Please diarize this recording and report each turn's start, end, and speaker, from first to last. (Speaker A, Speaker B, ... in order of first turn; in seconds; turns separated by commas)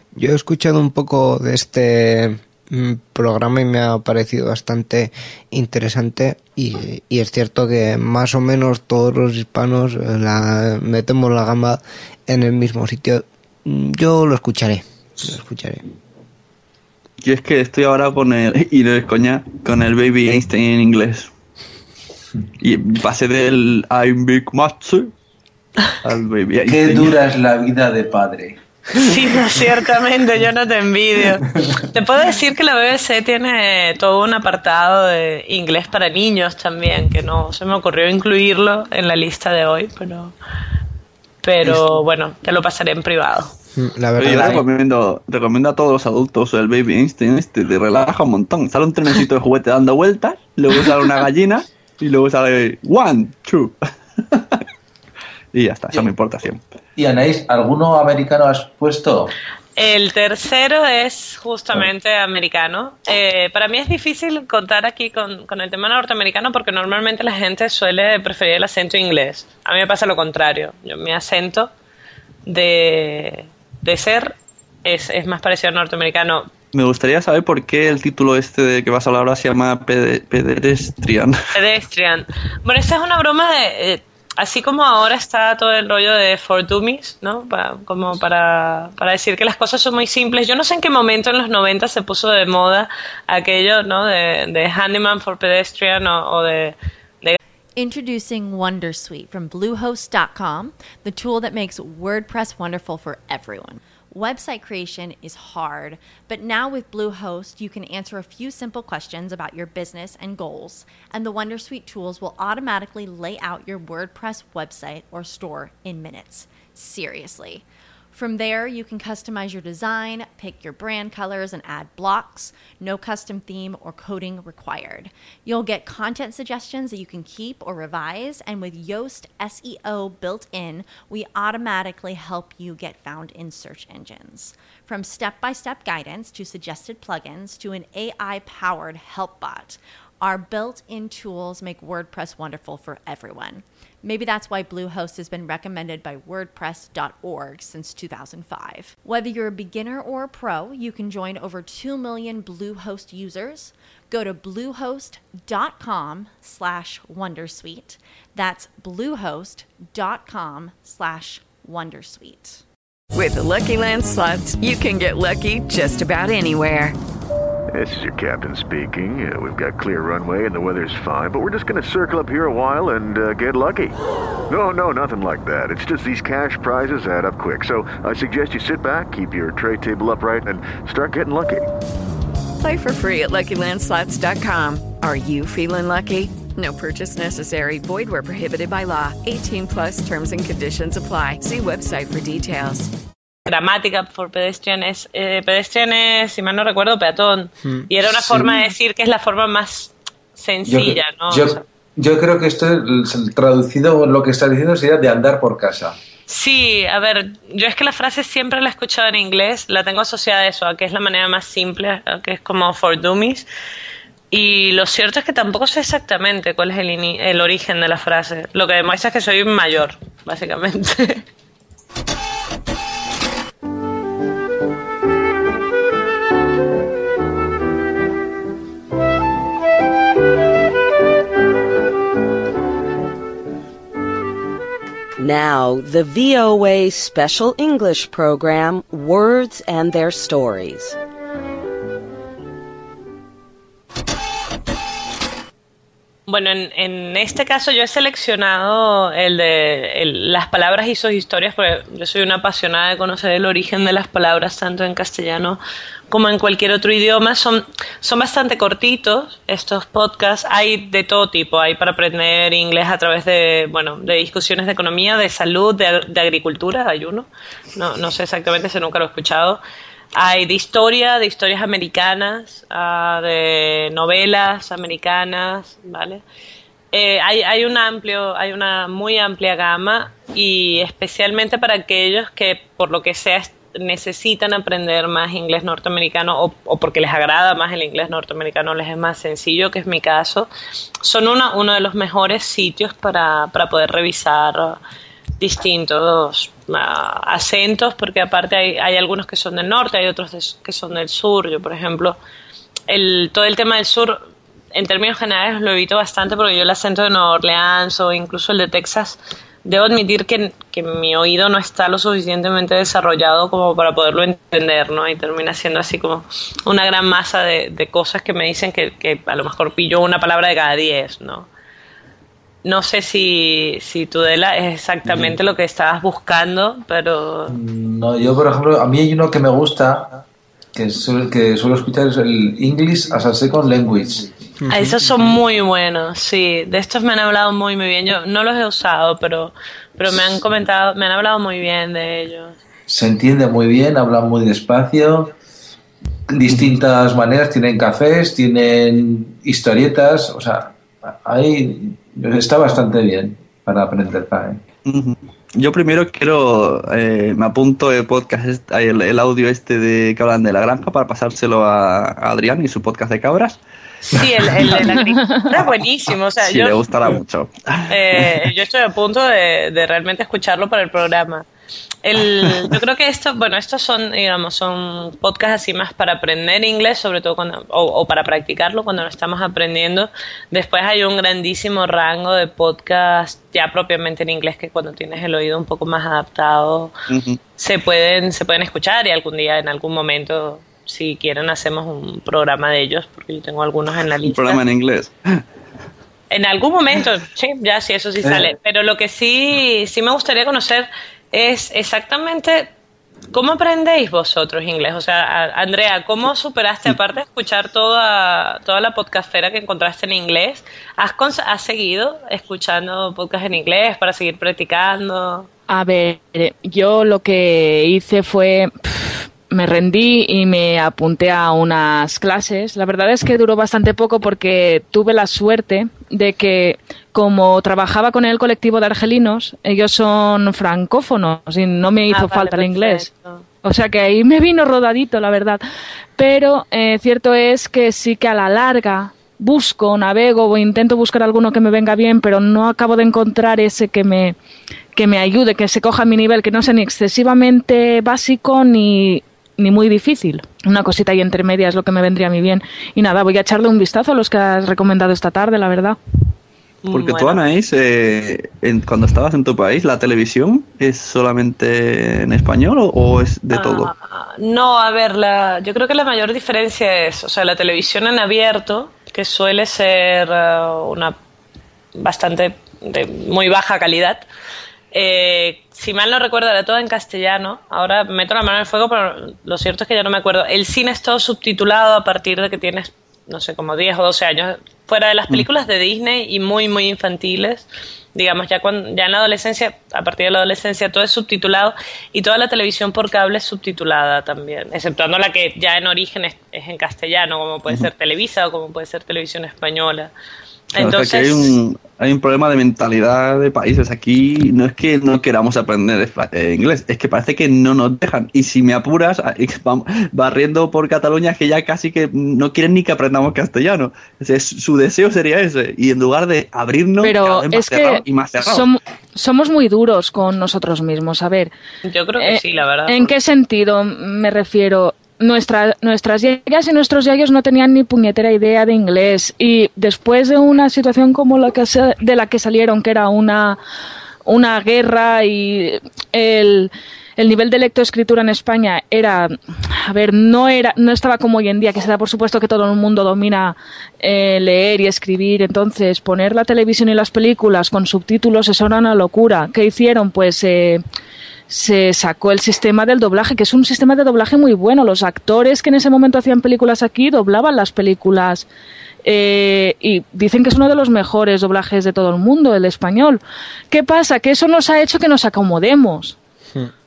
Speaker A: 0.1-15.8, Speaker B: 17.2-21.3, Speaker B: 22.6-25.1, Speaker B: 26.0-27.1, Speaker C: 26.7-28.6, Speaker D: 29.0-40.3, Speaker C: 31.3-31.7, Speaker D: 41.4-43.5, Speaker A: 43.7-44.6, Speaker B: 44.2-53.7, Speaker B: 55.5-56.6, Speaker C: 57.0-59.3, Speaker D: 59.8-71.7, Speaker D: 72.5-74.3, Speaker D: 74.8-76.5, Speaker B: 76.7-81.3, Speaker D: 81.5-97.4, Speaker E: 97.8-162.6, Speaker F: 163.1-166.9, Speaker G: 167.7-173.9, Speaker G: 174.5-181.7, Speaker F: 182.6-192.9, Speaker D: 193.5-201.6, Speaker C: 198.0-198.5, Speaker C: 200.7-205.9, Speaker D: 206.3-213.4, Speaker D: 214.3-221.2, Speaker H: 235.2-240.9, Speaker D: 246.3-255.6, Speaker D: 256.1-269.6, Speaker D: 270.1-276.2, Speaker D: 276.9-290.5, Speaker D: 291.0-294.8, Speaker D: 295.4-302.2, Speaker D: 302.9-304.2, Speaker D: 304.7-321.5, Speaker D: 322.6-327.5, Speaker C: 325.1-325.3, Speaker C: 327.5-330.2, Speaker C: 330.7-334.3, Speaker A: 334.6-334.9, Speaker D: 334.7-342.6, Speaker C: 342.9-345.3, Speaker C: 346.3-354.6, Speaker B: 354.8-363.6, Speaker D: 364.1-366.8, Speaker B: 364.7-365.0, Speaker I: 364.9-365.5, Speaker B: 366.4-368.5, Speaker D: 367.9-371.4, Speaker D: 372.0-386.9, Speaker B: 387.1-387.4, Speaker D: 387.6-394.6, Speaker B: 394.2-395.4, Speaker D: 396.3-402.7, Speaker C: 398.2-398.5, Speaker D: 403.3-415.5, Speaker I: 415.7-433.1, Speaker D: 432.1-433.4, Speaker I: 433.6-435.6, Speaker I: 436.2-444.3, Speaker I: 444.9-456.0, Speaker D: 456.8-457.4, Speaker B: 456.9-463.9, Speaker D: 463.5-471.1, Speaker D: 472.0-474.2, Speaker D: 474.9-500.1, Speaker B: 500.8-518.6, Speaker D: 500.8-501.5, Speaker I: 517.0-521.5, Speaker D: 521.8-523.1, Speaker I: 522.2-533.6, Speaker I: 534.2-550.8, Speaker I: 551.5-558.5, Speaker I: 559.0-566.1